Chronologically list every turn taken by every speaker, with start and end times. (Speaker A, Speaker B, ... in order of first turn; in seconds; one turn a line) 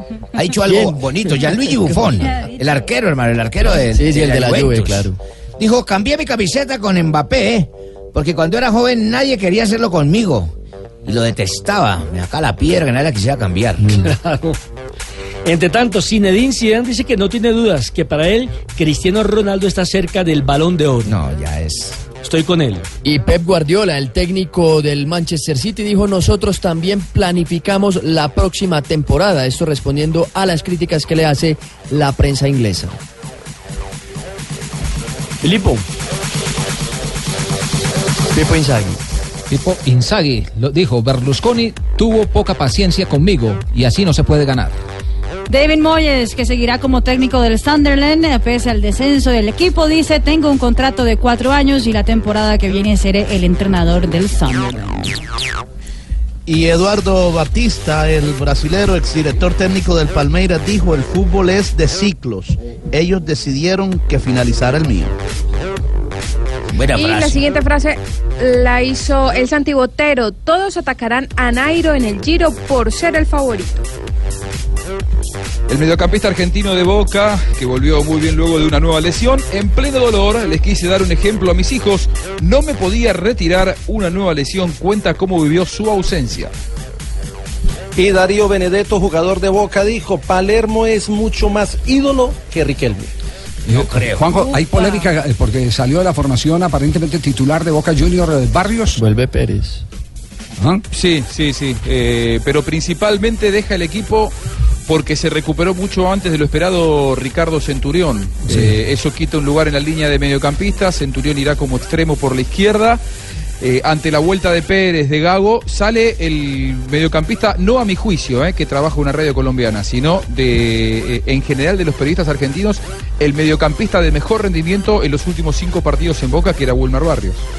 Speaker A: 0.3-10.5
Speaker B: 0.6-1.9
Speaker C: 2.2-2.6
Speaker B: 3.8-5.2
Speaker A: 11.0-13.8
Speaker B: 13.8-14.1
Speaker D: 14.0-14.6
Speaker D: 15.4-21.2
Speaker A: 21.1-22.0
Speaker D: 22.2-22.9
Speaker B: 23.0-33.0
Speaker D: 35.4-35.8
Speaker B: 38.3-39.0
Speaker E: 39.5-44.8
Speaker C: 45.5-55.1
Speaker F: 56.5-65.1
Speaker A: 66.8-67.4
Speaker G: 66.9-73.8
Speaker H: 75.7-86.5
Speaker I: 88.0-93.1
Speaker J: 93.7-99.0
Speaker C: 94.3-95.1
Speaker B: 99.0-99.8
Speaker J: 100.6-100.8
Speaker H: 100.9-104.3
Speaker H: 104.9-113.0
Speaker J: 108.5-108.7
Speaker H: 113.6-127.4